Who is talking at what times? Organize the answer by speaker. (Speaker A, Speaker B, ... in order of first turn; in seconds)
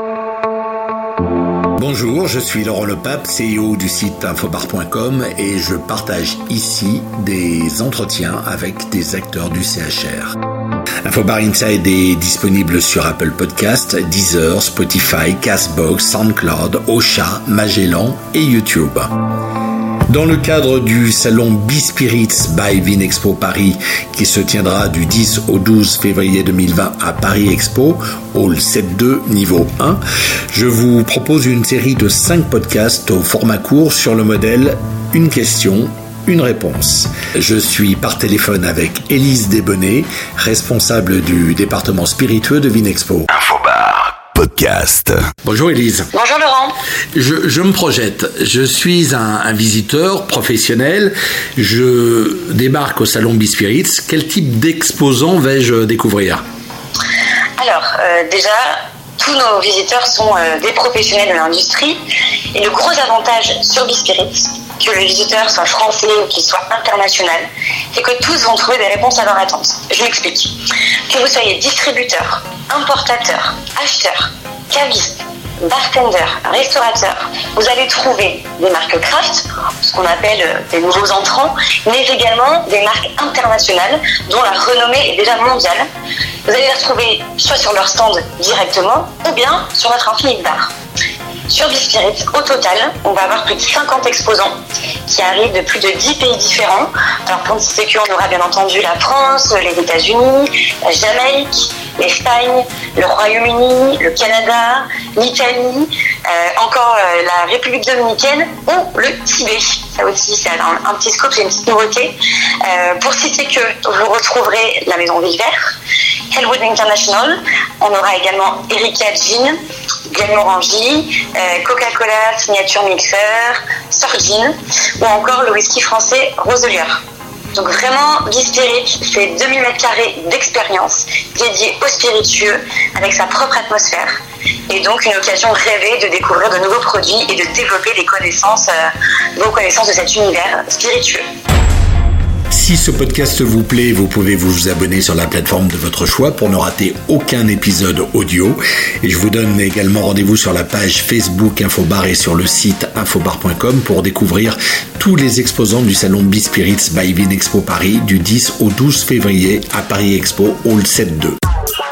Speaker A: 1.8-10.3, 11.0-19.1, 20.1-43.3, 45.4-46.1, 47.1-56.4, 142.5-161.4
Speaker B: 43.3-45.3
Speaker C: 46.1-46.8, 57.6-62.0, 62.5-85.8, 86.5-90.7, 91.5-94.5, 95.1-115.8, 116.3-119.6, 120.1-127.0, 127.5-134.2, 134.7-141.2